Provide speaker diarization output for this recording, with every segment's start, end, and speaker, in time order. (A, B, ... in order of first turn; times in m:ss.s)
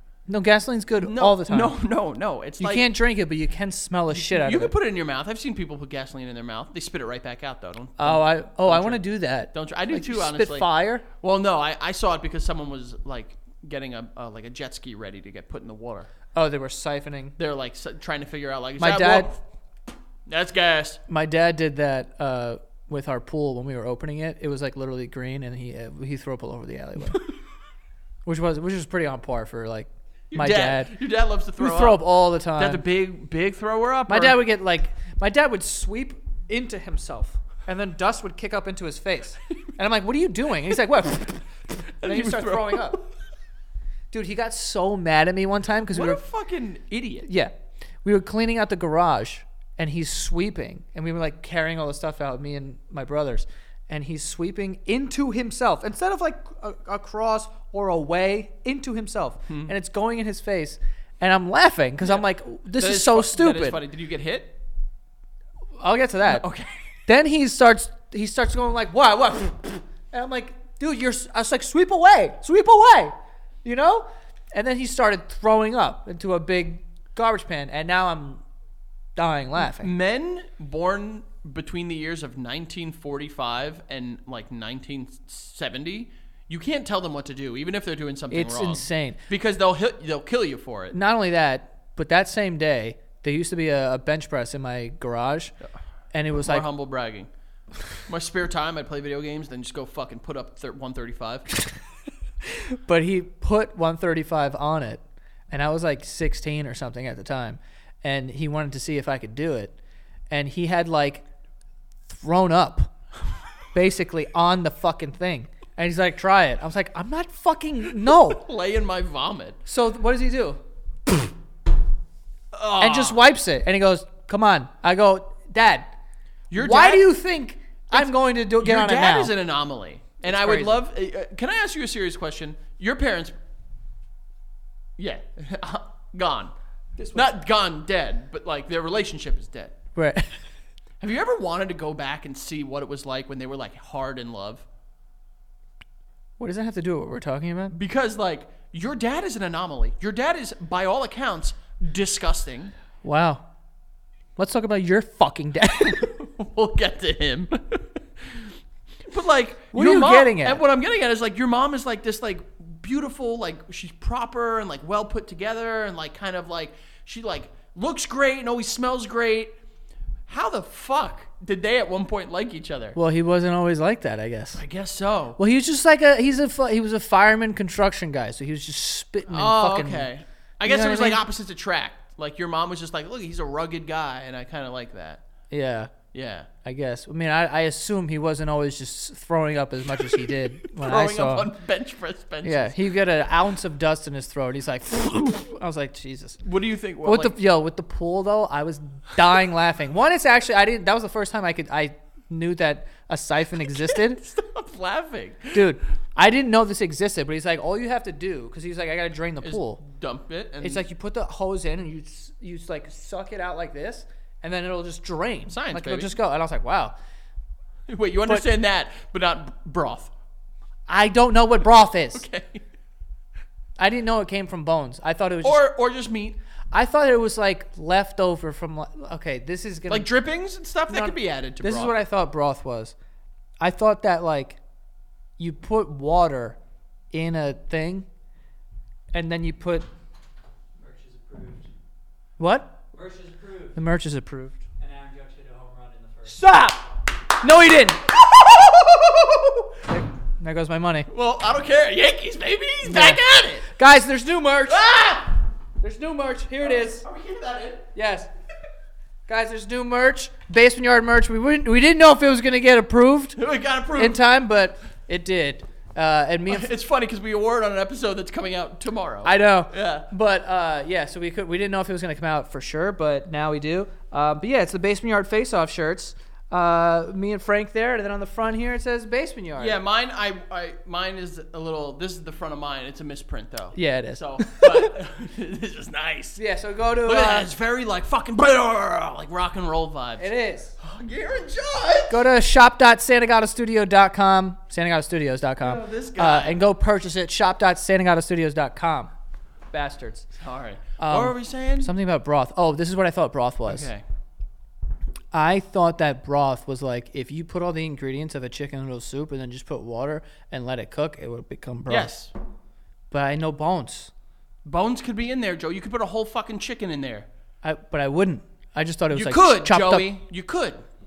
0:00.3-0:01.8 A
0:01.0-0:02.9 B
0:02.6-0:04.7 A
0:04.1-0:16.1 B
0:08.0-0:11.1 A
0:16.3-0:17.4 A
0:17.4-0:19.4 B
0:18.8-0:19.3 A
0:20.3-0:21.0 B
0:21.1-0:27.2 A
0:28.3-0:30.9 A
0:30.3-0:34.4 B
0:31.6-0:32.8 A
0:34.1-0:43.0 A
0:42.0-0:43.0 B
0:44.1-0:46.2 A
0:45.9-0:47.3 B
0:47.2-1:03.8 A
1:02.8-1:04.6 B
1:05.8-1:06.5 A
1:06.3-1:06.8 B
1:07.1-1:18.4 A
1:19.2-1:19.9 A
1:19.6-1:31.0 B
1:28.3-1:29.2 A
1:30.9-1:35.5 A
1:36.1-1:36.7 A
1:36.4-1:37.3 B
1:38.1-1:41.5 B
1:42.5-1:49.8 A
1:50.3-1:51.2 A
1:52.1-1:52.9 A
1:53.7-1:58.4 A
1:58.1-1:59.6 B
1:59.7-2:00.6 A
2:02.6-2:03.2 B
2:02.7-2:05.9 A
2:06.5-2:07.1 B
2:06.6-2:09.3 A
2:07.9-2:13.3 B
2:10.2-2:10.8 A
2:15.0-2:16.5 B
2:17.1-2:19.8 B
2:20.0-2:20.4 A
2:21.0-2:24.6 B
2:26.4-2:27.8 A
2:27.7-2:32.7 B
2:33.0-2:33.5 A
2:34.4-2:36.1 A
2:35.8-2:38.5 B
2:39.1-2:49.6 B
2:39.7-2:40.6 A
2:50.3-2:53.0 B
2:53.0-2:54.6 A
2:54.6-2:55.4 B
2:55.4-3:00.1 A
2:59.3-3:05.2 B
3:00.6-3:01.2 A
3:05.5-3:05.9 A
3:06.1-3:06.5 B
3:06.6-3:11.5 A
3:10.1-3:12.8 B
3:12.4-3:16.4 A
3:16.4-3:17.4 B
3:17.0-3:24.2 A
3:23.6-3:25.7 B
3:25.5-3:29.8 A
3:29.4-3:30.9 B
3:30.6-3:37.0 A
3:35.5-3:36.2 B
3:37.9-3:40.1 B
3:40.9-3:42.2 A
3:42.1-3:42.6 B
3:43.8-3:45.6 A
3:45.4-3:46.4 B
3:46.7-3:50.1 A
3:49.9-3:51.9 B
3:50.9-3:53.0 A
3:53.6-3:54.6 A
3:55.4-3:56.6 A
3:57.1-3:58.1 A
3:59.1-3:59.9 A
4:00.8-4:01.7 C
4:02.4-4:02.8 A
4:02.9-4:03.8 C
4:03.8-4:04.6 A
4:04.8-4:06.4 C
4:06.3-4:06.9 A
4:07.4-4:08.0 A
4:08.0-4:09.7 B
4:09.9-4:11.1 A
4:11.1-4:13.7 B
4:12.8-4:15.0 A
4:14.7-4:15.3 B
4:15.8-4:17.0 A
4:16.6-4:17.9 B
4:17.9-4:18.3 A
4:19.3-4:23.4 A
4:23.4-4:24.2 B
4:24.0-4:26.7 A
4:26.5-4:30.1 B
4:29.2-4:39.8 A
4:39.6-4:46.4 B
4:43.8-4:44.9 A
4:46.4-4:47.5 A
4:47.0-4:50.3 B
4:50.2-4:50.7 A
4:50.8-4:52.2 B
4:52.1-4:59.1 A
4:55.6-4:56.6 B
4:59.7-5:00.3 A
5:00.4-5:01.9 B
5:01.0-5:03.9 A
5:03.7-5:04.0 B
5:05.3-5:12.1 A
5:11.9-5:12.3 B
5:13.1-5:14.1 A
5:14.6-5:17.3 B
5:17.6-5:20.1 A
5:19.1-5:20.8 B